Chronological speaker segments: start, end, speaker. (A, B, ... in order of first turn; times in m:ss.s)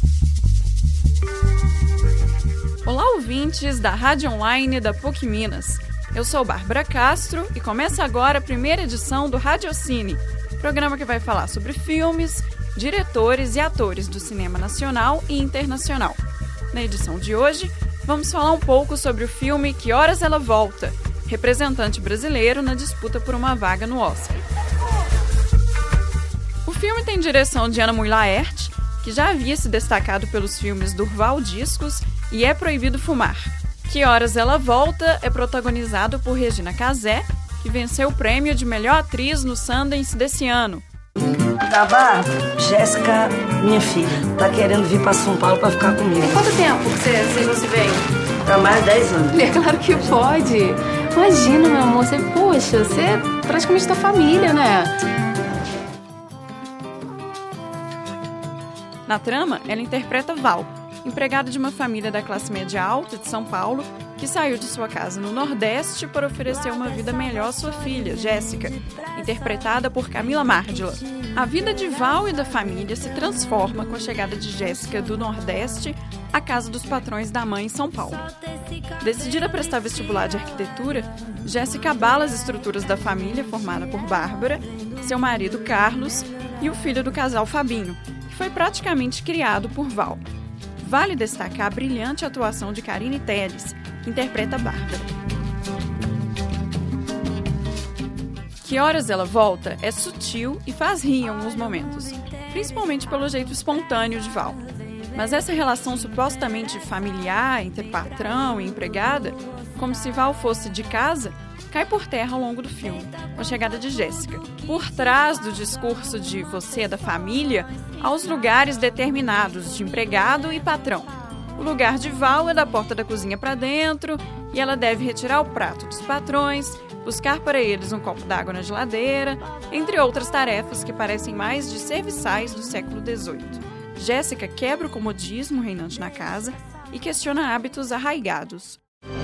0:02.8-0:16.2 A
0:16.7-0:24.4 A
0:26.6-0:40.8 A
0:41.6-0:46.4 B
0:46.2-0:48.0 C
0:48.4-0:49.4 B
0:49.3-0:54.9 C
0:59.1-1:18.3 A
1:19.0-1:30.2 A
1:30.8-1:35.1 A
1:38.6-2:18.8 A